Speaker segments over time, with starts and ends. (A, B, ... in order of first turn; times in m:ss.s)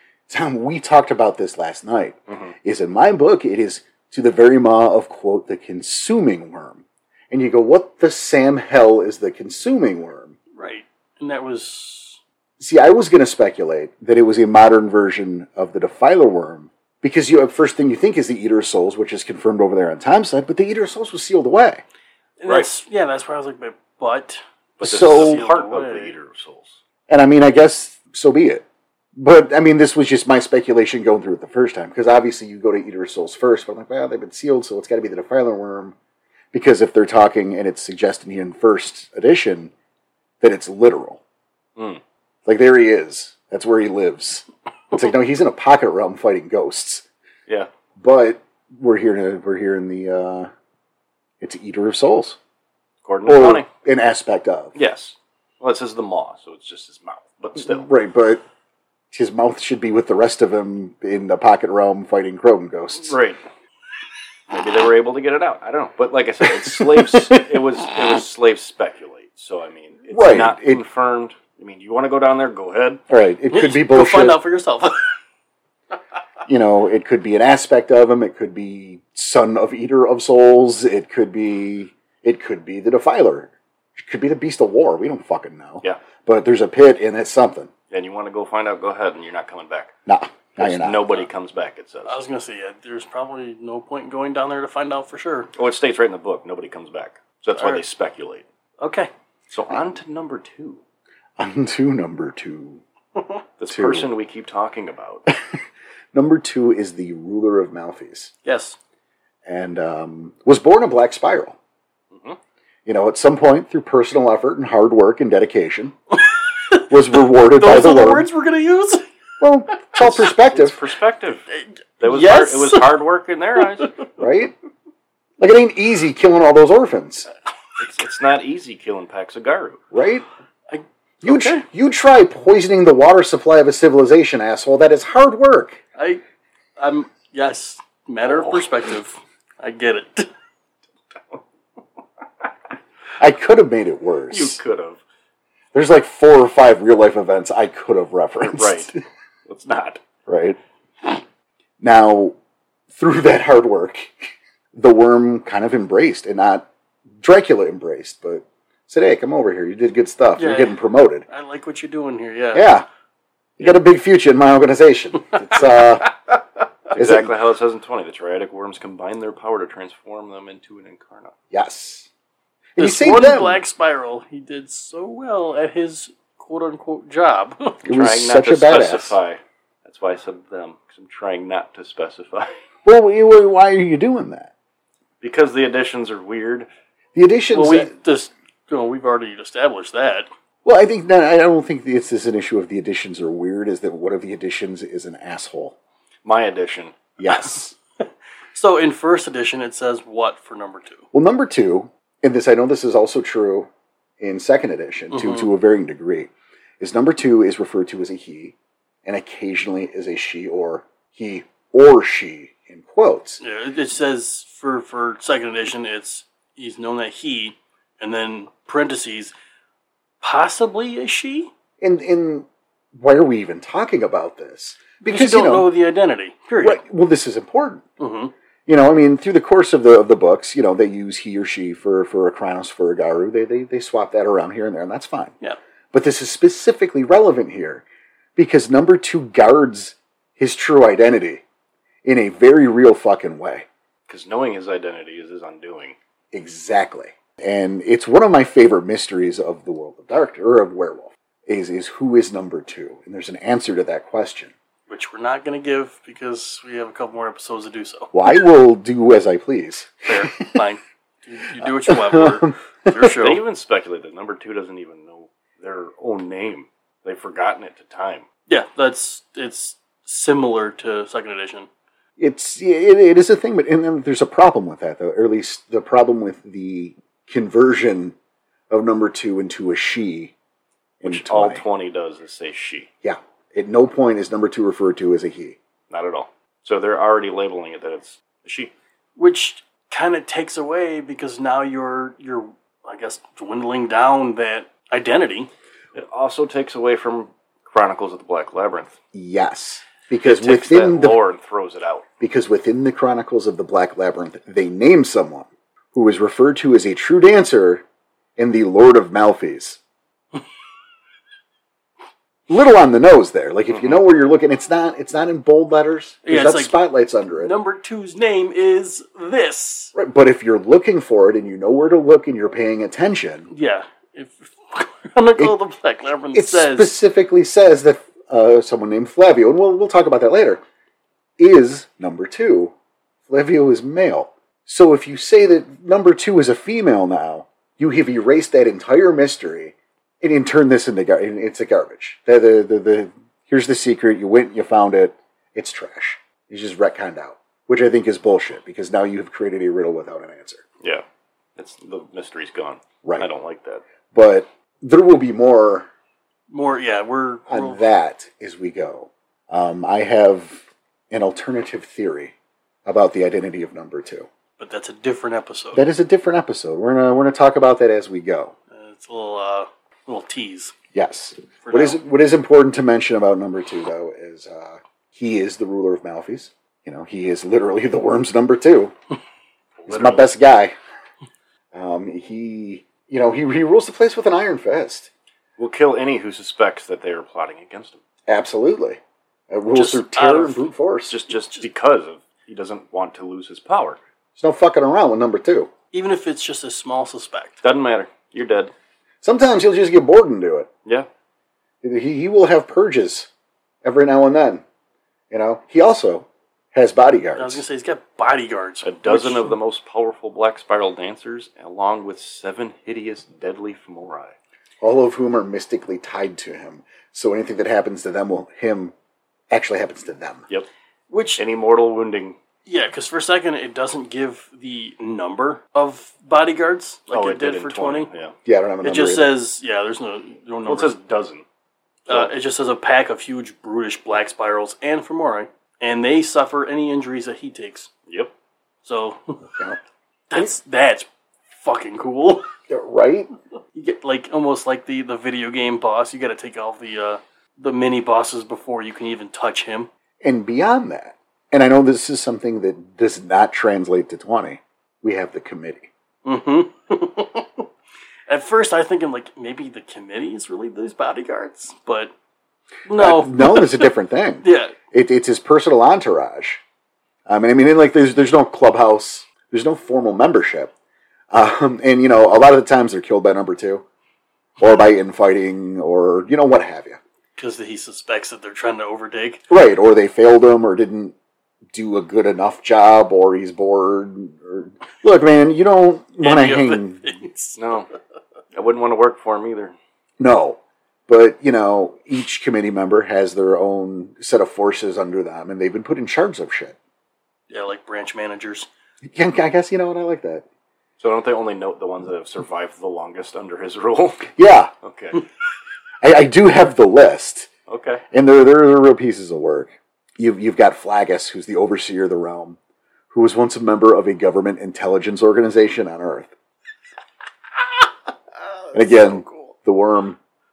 0:00.3-0:10.4 A
0:10.5-0:12.2 B
0:12.6-0:21.8 A
0:22.4-0:26.1 B
0:24.8-0:26.8 C
0:24.8-0:25.4 A
0:27.1-0:28.6 A
0:29.2-0:36.0 A
0:36.5-0:39.7 A
0:40.4-0:41.2 A
0:41.8-0:42.0 C
0:42.4-0:47.0 A
0:48.0-0:50.5 A
0:51.4-0:52.4 A
0:53.0-0:53.7 C
0:53.2-0:54.7 A
0:54.8-0:57.9 C
0:57.6-0:58.4 A
0:59.1-1:03.2 A
1:03.0-1:03.4 C
1:04.5-1:13.0 C
1:06.4-1:07.6 A
1:10.1-1:10.8 A
1:13.1-1:14.4 A
1:13.5-1:15.0 B
1:16.4-1:27.7 A
1:27.9-1:29.9 C
1:30.0-1:31.0 A
1:30.6-1:32.2 C
1:32.0-1:35.5 B
1:35.5-1:38.4 C
1:37.6-1:37.8 B
1:38.8-1:39.1 B
1:39.5-1:40.8 C
1:41.4-1:42.8 A
1:43.2-1:43.4 B
1:43.6-1:45.3 C
1:43.7-1:44.1 A
1:45.3-1:45.6 A
1:46.1-1:48.3 A
1:48.4-1:48.8 B
1:49.4-1:51.6 A
1:52.1-1:52.4 C
1:52.8-1:55.9 A
1:56.7-1:59.0 B
1:56.9-1:58.3 A
1:59.4-2:00.8 A
2:00.0-2:01.5 C
2:01.5-2:02.9 B
2:02.0-2:04.0 C
2:04.2-2:04.5 A
2:05.4-2:07.3 A
2:07.8-2:09.8 C
2:09.9-2:10.2 A
2:10.7-2:11.6 B
2:11.2-2:15.8 A
2:16.0-2:16.2 B
2:16.8-2:20.3 B
2:18.3-2:18.6 C
2:23.2-2:24.6 A
2:24.3-2:25.0 C
2:25.7-2:28.9 A
2:28.4-2:28.9 C
2:29.4-2:30.0 C
2:30.3-2:30.6 A
2:31.8-2:32.3 A
2:32.9-2:36.7 A
2:37.2-2:41.2 A
2:40.4-2:42.7 B
2:42.5-2:42.8 A
2:43.6-2:46.1 A
2:46.9-2:51.3 C
2:46.9-2:47.3 A
2:51.5-2:52.1 A
2:52.8-2:53.6 A
2:52.8-2:57.8 B
2:57.8-2:59.2 A
2:57.9-3:02.6 C
3:02.8-3:04.5 A
3:05.2-3:06.7 C
3:07.1-3:07.9 A
3:07.5-3:10.3 B
3:10.6-3:15.8 A
3:16.2-3:17.2 C
3:17.2-3:17.7 A
3:18.5-3:21.1 B
3:21.1-3:23.7 A
3:24.2-3:33.4 A
3:25.1-3:25.5 B
3:33.4-3:39.3 B
3:40.2-3:41.5 B
3:41.8-3:45.7 A
3:45.0-3:46.8 B
3:46.6-3:47.8 A
3:48.0-3:48.3 B
3:48.6-3:55.3 A
3:55.9-3:57.8 A
3:58.4-4:01.4 A
4:02.0-4:03.7 A
4:04.1-4:06.0 C
4:06.3-4:14.5 A
4:14.9-4:18.1 B
4:18.1-4:20.6 A
4:20.0-4:23.4 B
4:21.6-4:23.1 A
4:23.2-4:28.2 C
4:28.5-4:31.7 B
4:32.2-4:38.1 A
4:38.7-4:40.3 A
4:41.0-4:41.6 A
4:41.0-4:42.9 C
4:43.0-4:45.6 A
4:45.9-4:48.7 C
4:49.2-4:55.5 B
4:55.9-4:59.0 C
4:59.1-5:01.2 A
5:00.2-5:02.0 C
5:02.2-5:07.8 A
5:08.4-5:09.8 A
5:12.5-5:17.5 A
5:16.2-5:16.8 B
5:17.4-5:19.9 B
5:19.9-5:23.5 A
5:23.5-5:26.9 B
5:26.3-5:30.6 A
5:31.4-5:32.7 A
5:33.3-5:50.6 A
5:51.6-5:53.8 C
5:54.1-5:55.9 A
5:56.5-5:57.8 B
5:57.5-6:02.3 A
6:02.8-6:04.3 A
6:04.6-6:05.8 B
6:05.7-6:08.5 A
6:08.7-6:10.7 B
6:10.9-6:18.9 A
6:11.6-6:12.0 B
6:19.8-6:20.3 C
6:19.9-6:20.7 A
6:21.7-6:25.1 A
6:25.6-6:28.0 C
6:28.3-6:31.1 A
6:29.7-6:30.7 B
6:31.1-6:34.0 C
6:34.4-6:35.7 A
6:35.9-6:37.6 B
6:37.6-6:38.7 C
6:39.2-6:40.7 A
6:41.8-6:43.3 A
6:43.8-6:44.6 A
6:45.3-6:47.6 A
6:47.4-6:49.5 B
6:48.8-6:54.3 C
6:54.8-6:58.9 A
6:59.5-7:00.4 A
7:01.1-7:01.4 B
7:01.4-7:02.4 C
7:02.6-7:08.1 B
7:07.1-7:08.3 C
7:08.4-7:09.3 A
7:08.8-7:11.0 B
7:10.6-7:11.4 C
7:12.1-7:17.9 B
7:18.1-7:18.3 C
7:18.8-7:19.5 B
7:19.5-7:19.8 A
7:20.3-7:22.5 B
7:22.7-7:23.3 A
7:23.7-7:29.9 B
7:30.2-7:35.9 A
7:36.2-7:37.7 B
7:38.3-7:42.1 B
7:42.9-7:43.9 B
7:43.0-7:46.6 A
7:44.4-7:44.8 B
7:47.3-7:50.7 A
7:51.3-7:53.8 A
7:54.6-7:57.0 A
7:57.4-7:59.4 B
7:59.5-8:01.1 A
8:01.7-8:07.1 A
8:06.2-8:07.6 B
8:07.6-8:07.9 C
8:08.5-8:09.8 C
8:10.2-8:16.8 A
8:17.5-8:18.7 B
8:19.0-8:20.4 A
8:21.0-8:25.2 C
8:24.4-8:24.7 A
8:26.0-8:27.5 A
8:27.7-8:28.0 C
8:28.1-8:32.6 A
8:33.1-8:36.3 A
8:38.6-8:39.5 B
8:38.7-8:40.2 A